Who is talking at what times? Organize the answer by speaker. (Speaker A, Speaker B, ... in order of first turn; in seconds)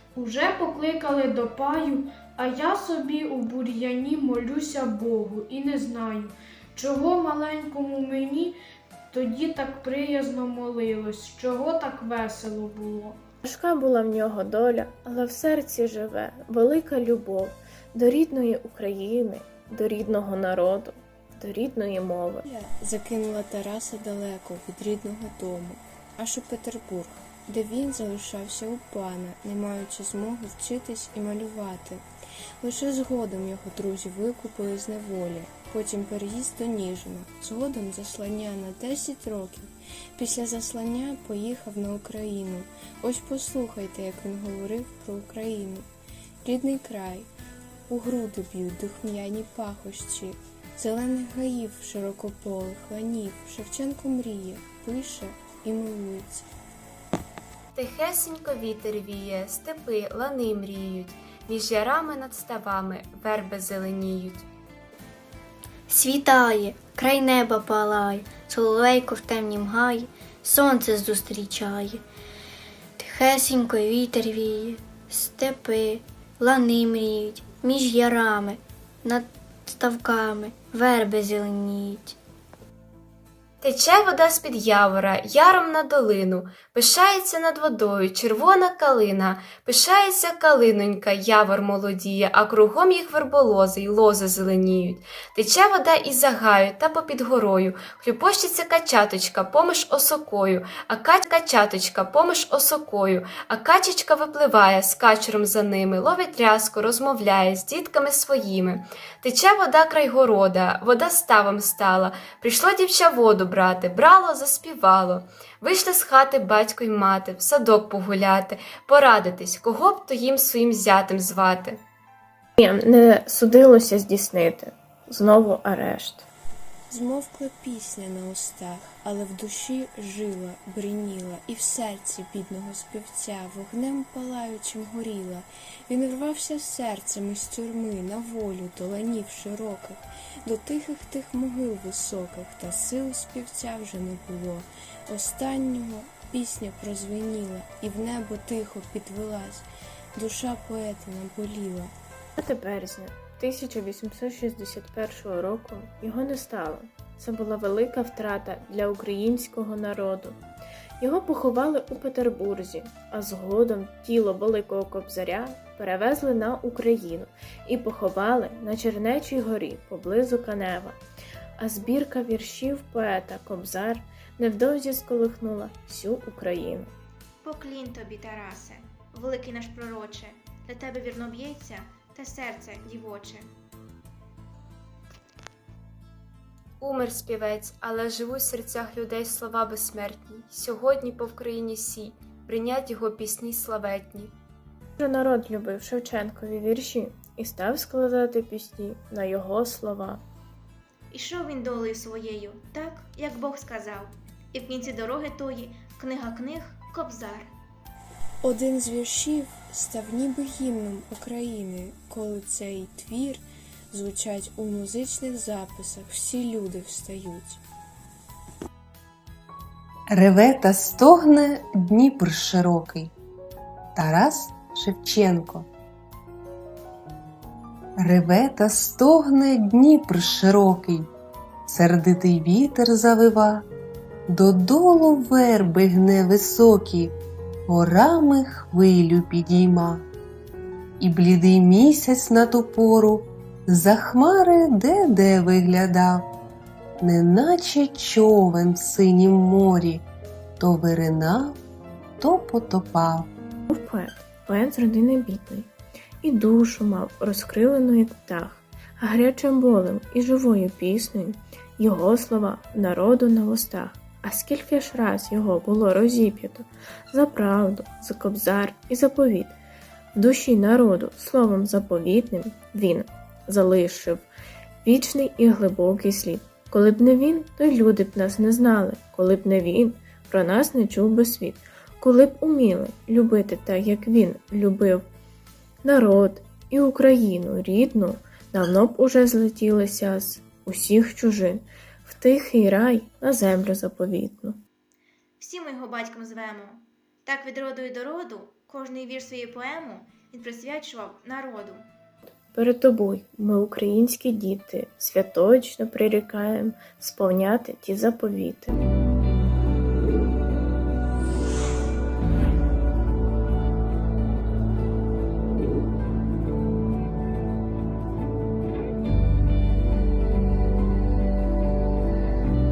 Speaker A: 0.1-8.6, 9.1-13.2
Speaker B: 13.4-22.4, 122.6-126.3, 152.4-160.4, 161.0-171.0, 171.6-176.9, 195.0-200.2, 253.7-255.7, 256.2-269.6, 270.1-274.3, 274.8-285.1, 285.8-294.6, 302.6-308.8
Speaker C: 22.5-32.0, 32.6-45.9, 46.4-47.3, 47.9-56.5, 126.9-151.9, 208.4-217.6
Speaker D: 57.8-64.5, 83.6-121.8, 186.8-194.3
Speaker E: 65.9-72.0, 73.0-82.2
Speaker F: 177.4-183.5, 201.1-207.5, 295.4-301.9
Speaker G: 220.1-223.1, 224.0-225.7, 228.0-231.1, 231.7-233.7, 234.3-237.2, 237.7-240.1, 241.0-246.3, 247.0-250.0, 250.6-251.6, 252.2-253.3